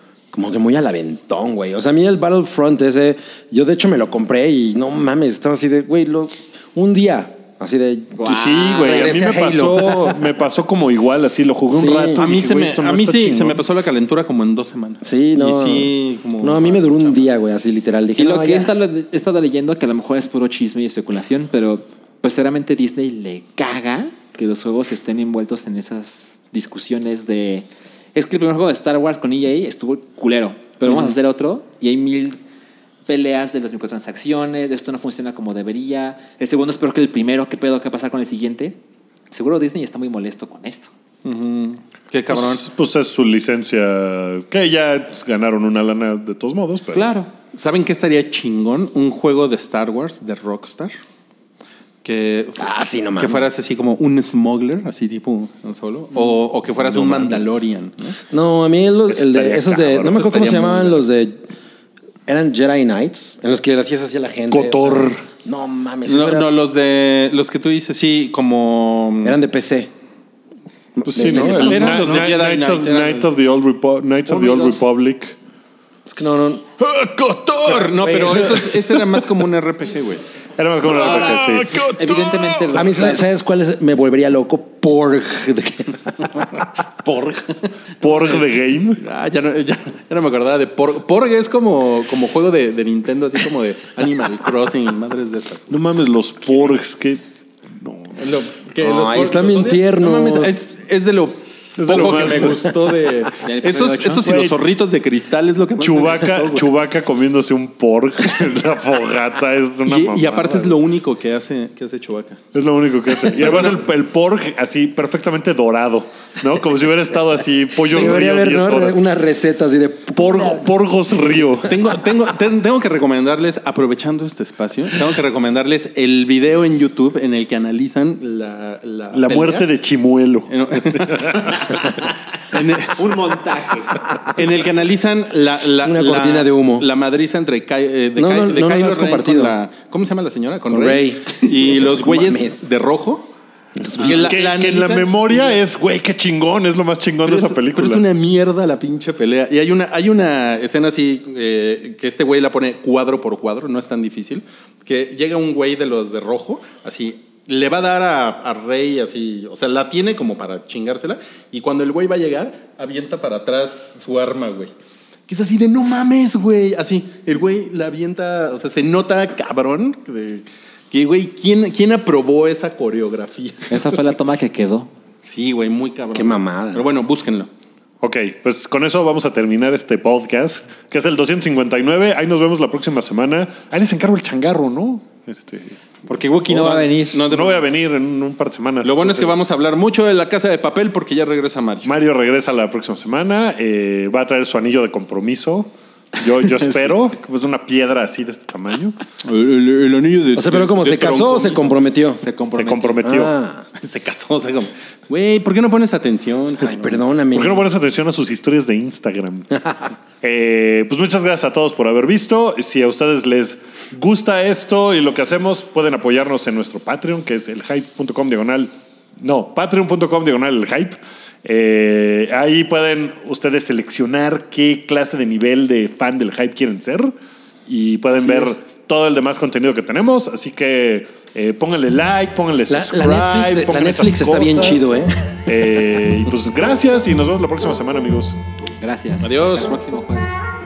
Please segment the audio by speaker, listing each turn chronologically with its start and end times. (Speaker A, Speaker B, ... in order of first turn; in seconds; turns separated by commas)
Speaker A: 0.3-10.3, Speaker B: 8.2-9.3, Speaker C: 8.2-13.6, Speaker A: 11.7-12.2, Speaker D: 12.2-17.3, Speaker A: 15.0-18.7, Speaker B: 18.2-32.4, Speaker B: 33.1-38.8, Speaker B: 39.3-40.9, Speaker D: 41.2-42.7, Speaker C: 42.3-47.1, Speaker B: 46.9-47.3, Speaker D: 47.5-50.9, Speaker D: 52.0-58.2, Speaker A: 52.6-53.5, Speaker A: 58.3-61.4, Speaker C: 59.1-60.4, Speaker D: 60.0-61.0, Speaker A: 62.3-66.5, Speaker C: 64.5-65.2, Speaker D: 66.1-69.4, Speaker A: 69.2-69.9, Speaker A: 71.0-72.2, Speaker C: 71.1-75.4, Speaker D: 71.3-73.3, Speaker B: 74.3-74.8, Speaker A: 76.1-76.6, Speaker D: 76.8-80.2, Speaker A: 77.8-78.8, Speaker C: 80.6-82.0, Speaker B: 80.8-83.2, Speaker D: 81.2-82.6, Speaker A: 82.7-86.7, Speaker C: 88.0-89.0, Speaker D: 88.2-88.5, Speaker D: 89.0-95.8, Speaker C: 95.7-98.2, Speaker D: 98.2-106.7, Speaker A: 98.8-100.5, Speaker C: 101.8-102.7, Speaker A: 102.4-102.7, Speaker B: 103.4-104.3, Speaker C: 104.2-104.6, Speaker C: 105.8-110.8, Speaker D: 109.9-112.4, Speaker C: 112.5-119.0, Speaker A: 113.2-113.6, Speaker A: 117.8-121.6, Speaker C: 120.2-121.8, Speaker D: 121.7-129.7, Speaker C: 129.1-132.0, Speaker D: 130.5-133.1, Speaker B: 132.9-134.0, Speaker D: 134.3-143.3, Speaker A: 135.8-136.9, Speaker A: 138.2-139.6, Speaker A: 140.7-142.7, Speaker A: 143.8-144.3, Speaker D: 144.0-145.6, Speaker C: 144.0-148.0, Speaker D: 147.2-164.7, Speaker D: 165.3-174.0, Speaker B: 173.7-174.9, Speaker D: 175.2-177.5, Speaker A: 176.1-176.9, Speaker C: 178.0-185.8, Speaker B: 186.1-187.2, Speaker D: 186.4-187.7, Speaker C: 187.2-189.4, Speaker D: 188.8-191.9, Speaker C: 191.8-199.0, Speaker D: 199.2-201.9, Speaker A: 200.4-202.2, Speaker B: 202.2-203.1, Speaker C: 202.5-203.3, Speaker A: 203.0-203.7, Speaker D: 203.8-207.0, Speaker A: 206.6-207.7, Speaker C: 207.3-209.6, Speaker C: 210.2-227.1, Speaker C: 227.7-234.9, Speaker A: 228.2-228.6, Speaker A: 232.7-235.1, Speaker C: 235.5-238.4, Speaker B: 238.8-240.4, Speaker D: 239.2-239.8